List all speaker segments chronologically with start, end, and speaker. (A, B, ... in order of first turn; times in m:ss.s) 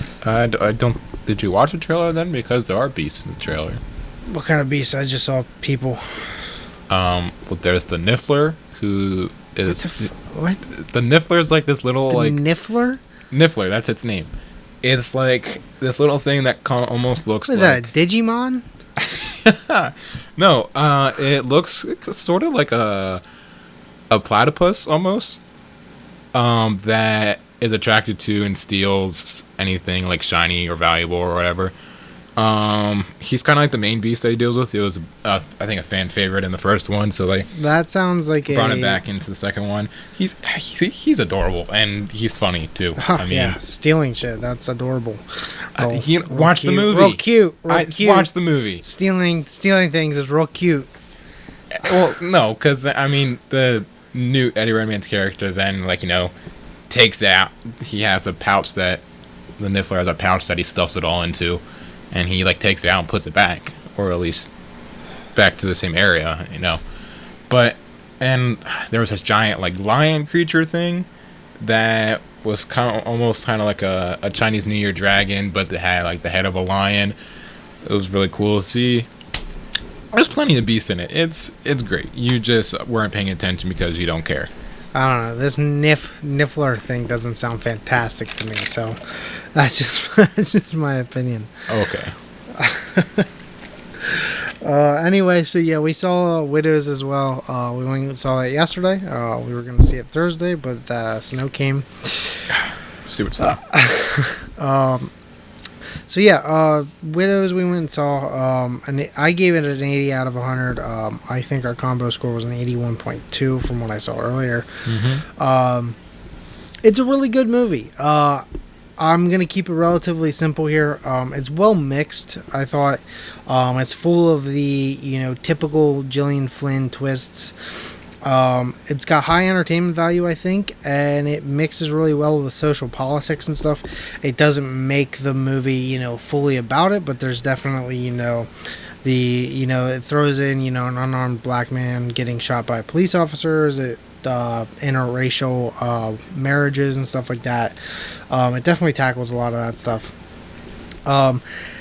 0:00.2-0:03.8 A
0:04.3-0:06.2 B
0:06.9-0:10.1 A
0:09.7-0:10.6 B
0:10.7-0:12.4 A
0:12.1-0:13.0 B
0:13.3-0:17.9 A
0:17.5-0:18.6 B
0:19.0-0:23.2 A
0:24.1-0:25.4 A
0:26.3-0:31.7 A
0:32.4-0:37.5 A
0:37.5-0:39.0 B
0:38.5-0:43.6 A
0:43.0-0:45.2 B
0:45.7-0:48.3 B
0:45.8-0:48.8 A
0:48.8-0:50.9 B
0:51.7-0:56.3 A
0:56.9-0:59.0 A
0:59.6-1:04.5 A
1:05.3-1:06.8 A
1:07.5-1:11.1 A
1:11.6-1:17.2 A
1:17.8-1:19.1 A
1:20.1-1:24.5 A
1:24.9-1:29.0 B
1:29.5-1:31.5 B
1:31.7-1:32.1 A
1:32.5-1:33.3 B
1:34.1-1:42.5 B
1:43.1-1:43.6 A
1:43.4-1:45.1 B
1:46.1-1:54.7 B
1:54.8-1:55.2 A
1:55.4-1:56.0 B
1:56.8-1:58.4 B
1:59.0-2:07.5 B
2:08.2-2:18.5 B
2:19.0-2:27.7 B
2:28.3-2:30.1 B
2:31.0-2:31.4 B